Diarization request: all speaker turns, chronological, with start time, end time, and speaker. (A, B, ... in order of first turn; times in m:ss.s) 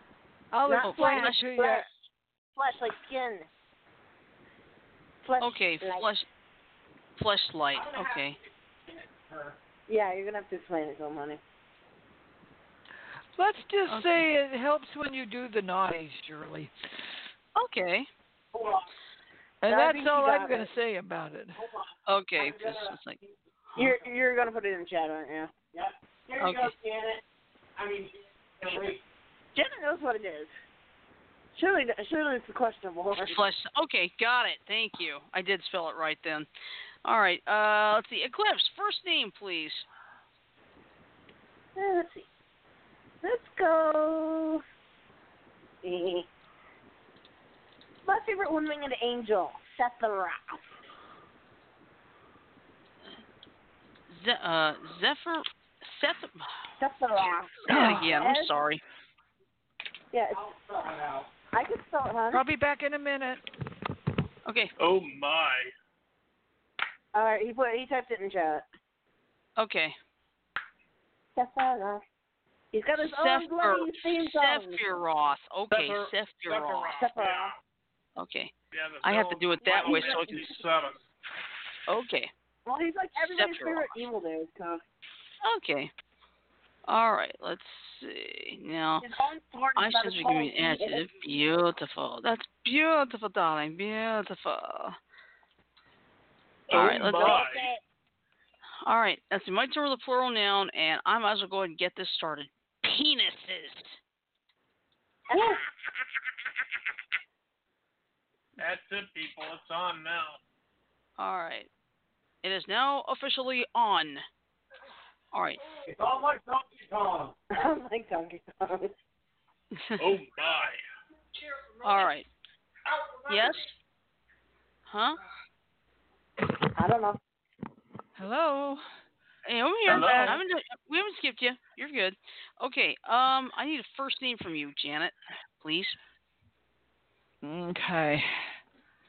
0:00.5-0:01.9 A
0:00.6-0:01.9 B
0:00.8-0:01.4 C
0:02.5-0:03.5 B
0:05.2-0:06.1 B
0:05.4-0:06.3 C
0:07.2-0:08.4 C
0:07.7-0:09.6 D
0:09.9-0:11.4 B
0:13.4-0:16.7 A
0:13.9-0:14.2 C
0:17.6-0:18.1 C
0:18.5-0:18.9 D
0:19.6-0:21.6 A
0:19.7-0:20.7 B
0:21.5-0:23.4 D
0:22.1-0:23.2 C
0:23.8-0:25.5 B
0:25.7-0:27.2 D
0:26.4-0:26.7 C
0:27.8-0:29.0 D
0:29.5-0:30.5 B
0:31.5-0:33.4 B
0:33.2-0:36.5 C
0:37.0-0:39.8 C
0:41.8-0:42.3 B
0:43.2-0:44.6 B
0:45.8-0:46.3 B
0:48.0-0:50.7 B
0:54.1-0:56.5 C
0:56.8-0:58.5 B
0:57.7-0:58.8 C
0:57.7-0:58.1 A
1:00.1-1:00.4 B
1:00.3-1:01.3 D
1:01.5-1:02.4 B
1:02.3-1:03.4 A
1:04.4-1:04.7 C
1:04.8-1:05.7 E
1:07.1-1:08.6 B
1:09.6-1:10.0 C
1:11.4-1:12.0 B
1:12.7-1:14.8 B
1:13.0-1:17.0 C
1:15.7-1:17.6 E
1:17.0-1:17.5 B
1:18.2-1:18.5 C
1:18.7-1:21.0 E
1:19.0-1:20.4 C
1:19.6-1:20.5 B
1:21.9-1:22.3 C
1:22.6-1:24.8 B
1:23.3-1:23.9 C
1:25.4-1:25.9 C
1:26.9-1:29.0 C
1:29.0-1:31.0 B
1:29.8-1:35.0 C
1:36.7-1:37.6 E
1:36.7-1:37.4 C
1:37.2-1:37.8 B
1:38.8-1:44.0 C
1:45.3-1:45.6 B
1:48.6-1:50.4 E
1:51.2-1:51.7 C
1:52.4-1:54.2 C
1:55.3-1:55.6 C
1:55.9-1:57.4 D
1:57.5-1:58.9 B
1:59.8-2:00.0 C
2:00.0-2:00.8 E
2:01.8-2:02.3 C
2:02.9-2:03.6 D
2:03.3-2:03.7 C
2:04.9-2:05.2 C
2:06.8-2:07.2 B
2:08.2-2:08.8 A
2:09.4-2:16.0 C
2:09.8-2:10.4 E
2:09.9-2:10.4 A
2:17.4-2:18.6 A